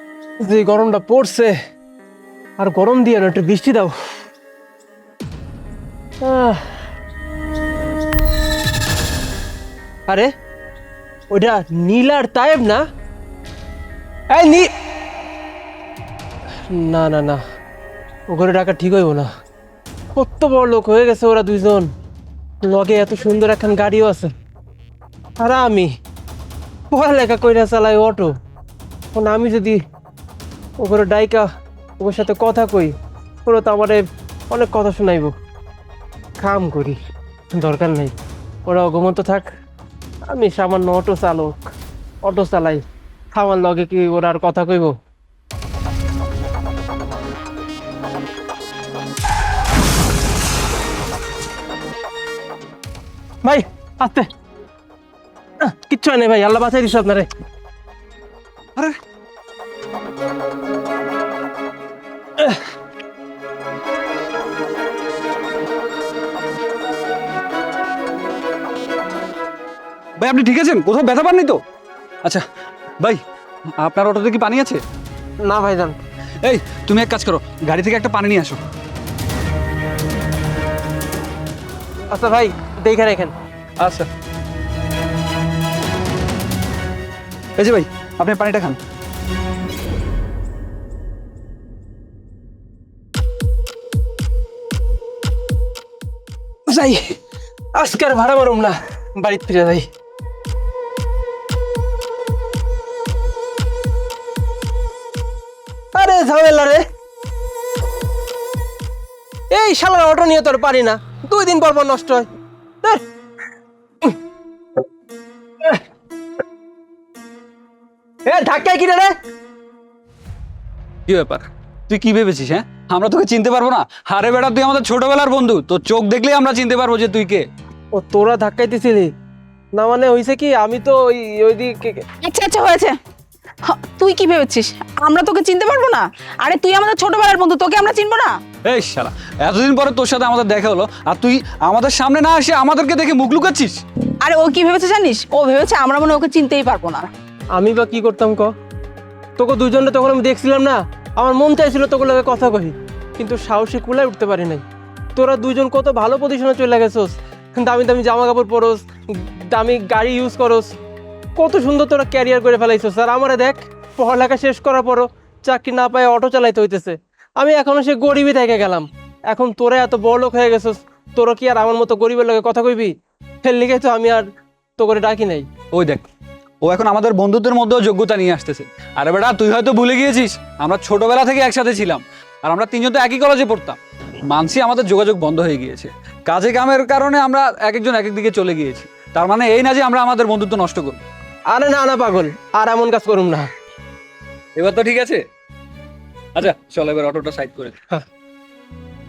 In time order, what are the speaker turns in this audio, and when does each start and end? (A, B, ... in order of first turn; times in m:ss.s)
0:00.4-0:01.6 A
0:02.6-0:04.0 A
0:06.2-0:06.8 A
0:11.3-0:12.8 A
0:14.3-0:14.7 A
0:16.7-0:17.4 A
0:18.3-0:19.3 A
0:20.2-0:21.9 A
0:22.6-0:24.3 A
0:25.4-0:25.9 A
0:26.9-0:28.4 A
0:29.1-0:29.8 A
0:30.8-0:31.5 A
0:32.0-0:33.0 A
0:33.5-0:35.3 A
0:36.4-0:37.0 A
0:37.6-0:38.1 A
0:38.7-0:39.5 A
0:40.3-0:41.6 A
0:42.2-0:45.0 A
0:53.4-0:54.3 A
0:55.6-0:57.3 A
1:10.2-1:11.6 B
1:13.8-1:14.8 B
1:15.4-1:16.0 A
1:16.4-1:18.6 B
1:22.1-1:23.3 A
1:23.8-1:24.1 B
1:27.6-1:28.8 B
1:36.7-1:37.2 A
1:37.8-1:39.9 A
1:45.9-1:46.8 A
1:49.5-1:52.3 A
1:58.3-1:59.2 A
2:01.1-2:07.5 B
2:08.0-2:09.1 A
2:09.8-2:12.1 A
2:12.2-2:13.0 C
2:13.6-2:18.4 C
2:18.6-2:23.8 B
2:24.2-2:27.1 C
2:27.5-2:28.5 A
2:29.4-2:40.7 A
2:41.4-2:55.5 A
2:55.7-2:56.0 B
2:56.6-3:11.0 B
3:11.5-3:13.5 A
3:14.6-3:15.2 B
3:16.4-3:17.8 B